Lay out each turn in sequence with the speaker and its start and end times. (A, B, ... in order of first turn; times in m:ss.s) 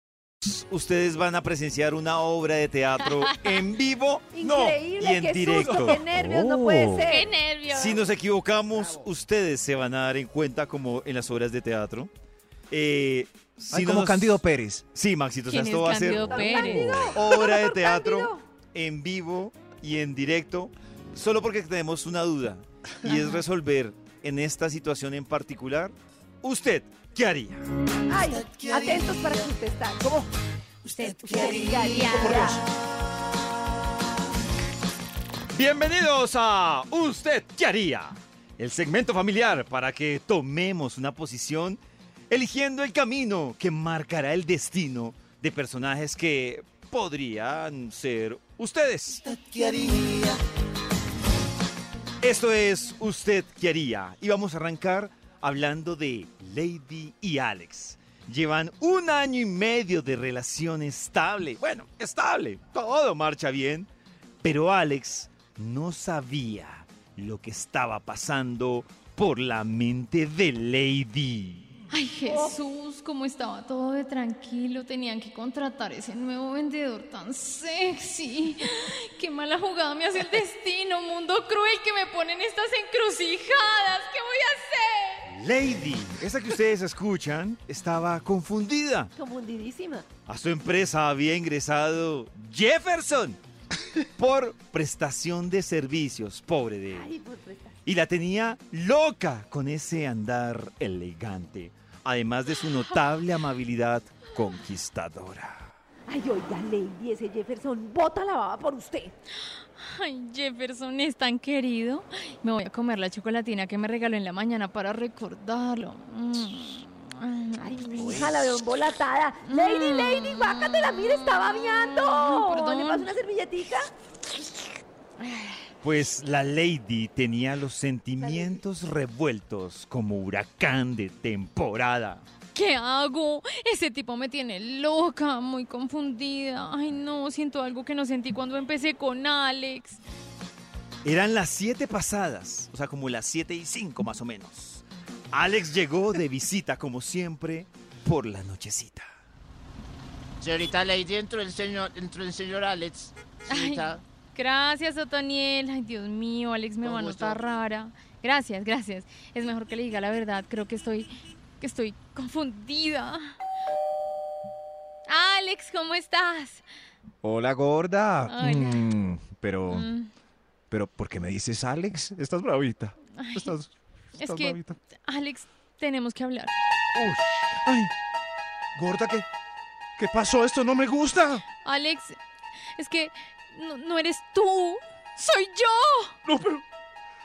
0:00.4-0:06.0 A
0:03.0-0:03.6 B
0:04.3-0:07.3 C
0:05.6-0:07.2 D
0:07.1-0:08.0 B
0:07.7-0:12.1 A
0:12.7-0:14.4 A
0:13.7-0:14.8 D
0:14.9-0:16.6 A
0:15.5-0:17.5 B
0:16.1-0:18.4 C
0:17.1-0:27.6 A
0:28.1-0:30.3 C
0:28.7-0:29.0 A
0:30.8-0:32.6 B
0:31.3-0:32.6 C
0:35.5-0:50.3 A
0:52.2-1:03.9 A
1:04.4-1:11.6 A
1:11.9-1:25.2 B
1:12.3-1:12.6 C
1:25.3-1:29.1 A
1:29.2-1:30.0 C
1:30.3-1:33.4 A
1:34.2-1:37.1 A
1:36.9-1:37.7 C
1:37.8-1:45.6 A
1:46.1-1:49.1 C
1:49.8-1:58.3 B
1:57.6-2:03.9 C
1:59.4-2:03.1 B
2:05.2-2:05.7 B
2:05.8-2:12.2 A
2:08.2-2:08.6 C
2:12.5-2:20.0 B
2:21.0-2:29.1 A
2:30.4-2:34.0 E
2:33.5-2:43.3 B
2:36.8-2:37.4 E
2:45.1-2:46.6 B
2:47.2-2:49.9 D
2:48.3-2:48.9 B
2:49.7-2:50.1 B
2:50.7-2:54.8 D
2:53.2-2:53.5 B
2:54.2-2:56.5 B
2:57.0-2:57.9 D
2:58.7-2:59.2 D
3:00.0-3:01.4 D
3:01.6-3:02.2 B
3:02.8-3:06.1 B
3:06.2-3:06.6 D